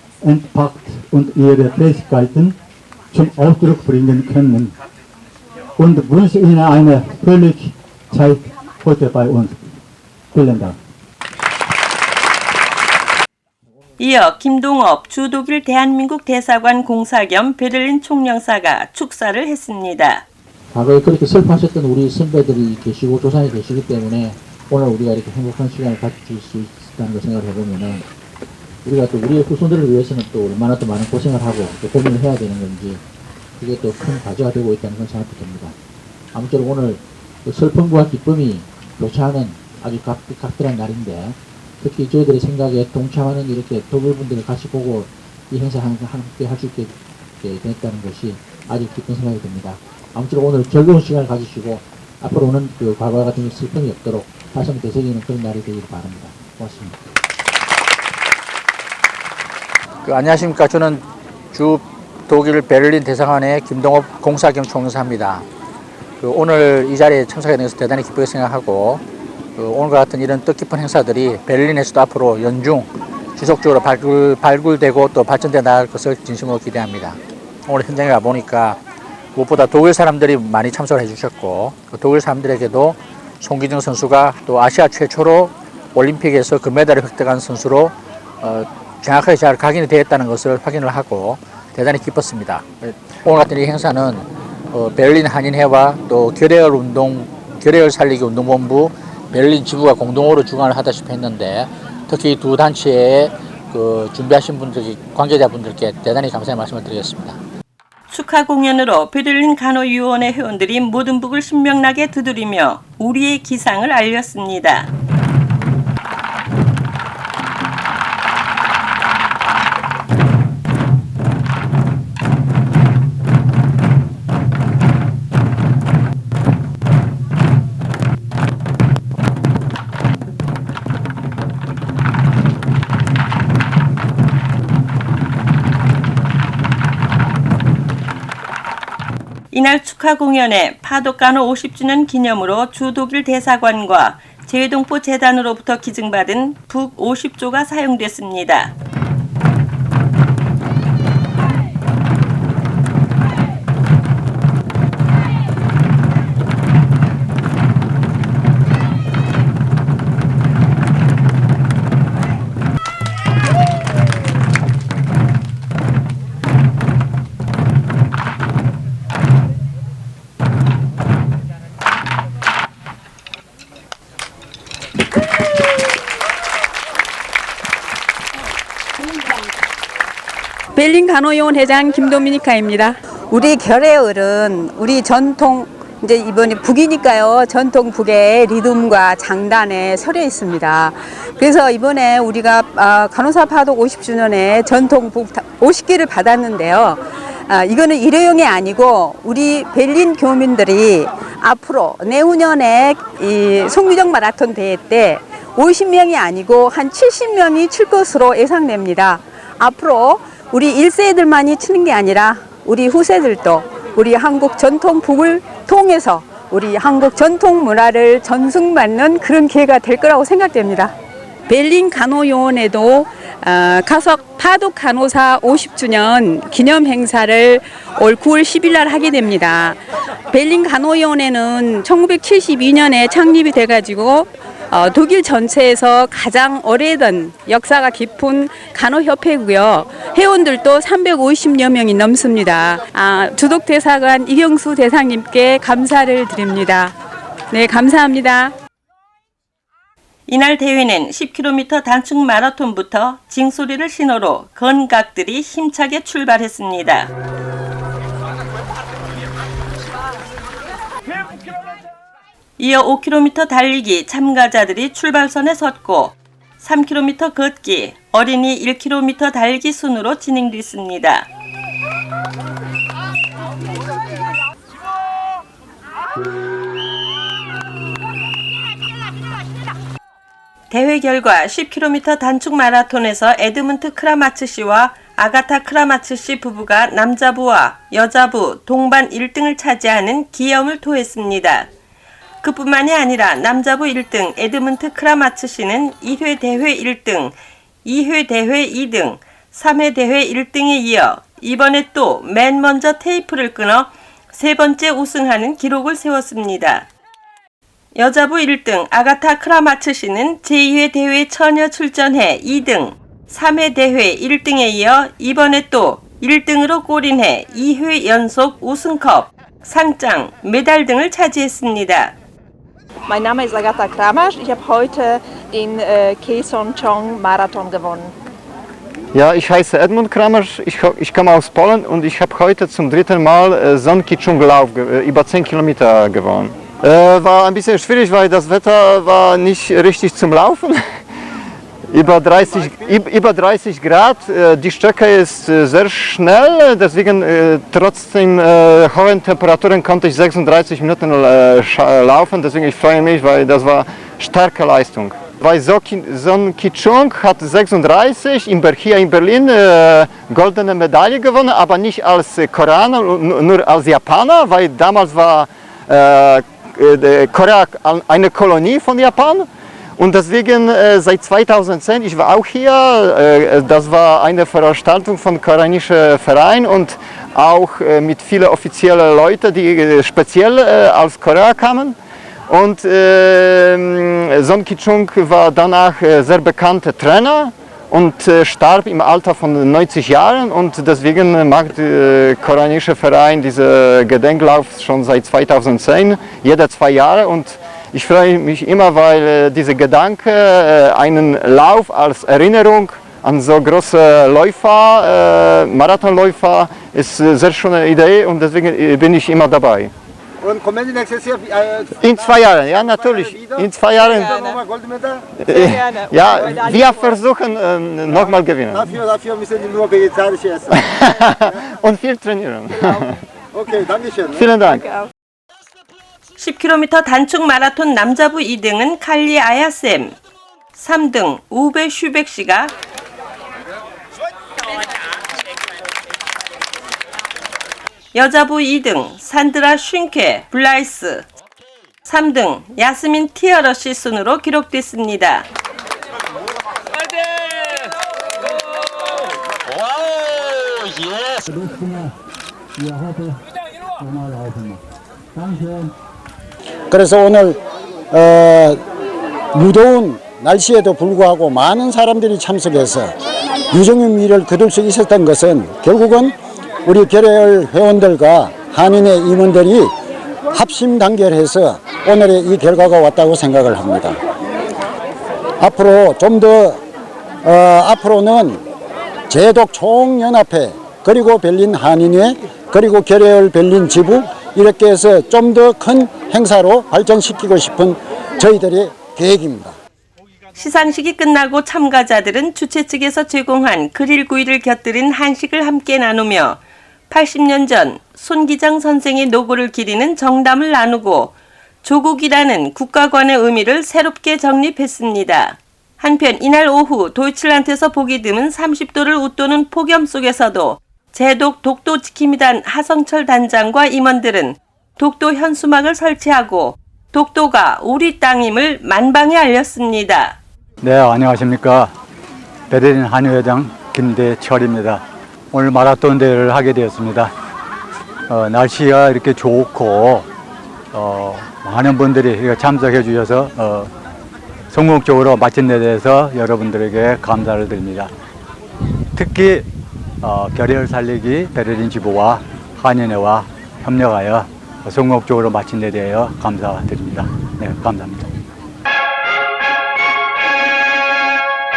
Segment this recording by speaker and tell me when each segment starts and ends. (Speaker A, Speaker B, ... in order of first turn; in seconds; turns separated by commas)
Speaker A: 0.2-2.5, Speaker A: 3.1-4.7, Speaker A: 5.8-9.7, Speaker A: 10.3-10.8, Speaker B: 14.0-20.2, Speaker C: 20.7-28.1, Speaker C: 28.8-33.0, Speaker C: 33.6-35.7, Speaker C: 36.3-57.0, Speaker C: 60.0-65.4, Speaker C: 66.2-69.0, Speaker C: 69.5-78.8, Speaker C: 79.3-107.4, Speaker B: 108.1-114.9, Speaker B: 139.5-148.7, Speaker D: 180.7-220.9, Speaker D: 221.5-246.9, Speaker D: 247.5-248.5, Speaker B: 250.3-257.1, Speaker B: 262.6-271.3, Speaker B: 280.7-291.7, Speaker B: 292.4-306.9, Speaker B: 307.9-322.1, Speaker E: 323.1-328.1, Speaker F: 329.1-340.8, Speaker F: 341.9-382.0, Speaker F: 382.5-409.9, Speaker G: 410.4-411.9, Speaker F: 411.9-414.4, Speaker G: 413.3-413.6, Speaker E: 414.1-414.6, Speaker G: 414.7-415.2, Speaker F: 415.4-419.0, Speaker E: 415.4-417.2, Speaker G: 418.7-420.7, Speaker F: 420.7-423.1, Speaker E: 422.7-423.0, Speaker G: 423.9-424.4, Speaker F: 424.3-424.8, Speaker E: 424.7-425.1, Speaker B: 426.4-430.1, Speaker B: 430.8-432.7, Speaker B: 438.1-441.2, Speaker B: 442.1-445.5, Speaker A: 451.2-452.1, Speaker A: 452.8-453.4, Speaker A: 454.0-454.8, Speaker A: 455.3-455.9, Speaker H: 456.9-457.6, Speaker H: 458.1-458.8, Speaker H: 459.5-463.1, Speaker H: 463.7-469.9, Speaker H: 470.5-474.2, Speaker H: 475.6-476.8, Speaker H: 477.4-478.6, Speaker H: 479.3-489.7, Speaker B: 490.5-520.4, Speaker A: 520.8-521.9, Speaker A: 522.7-527.3, Speaker A: 528.3-530.3, Speaker A: 530.9-533.9, Speaker A: 534.7-538.1, Speaker A: 539.1-539.7, Speaker A: 540.2-548.3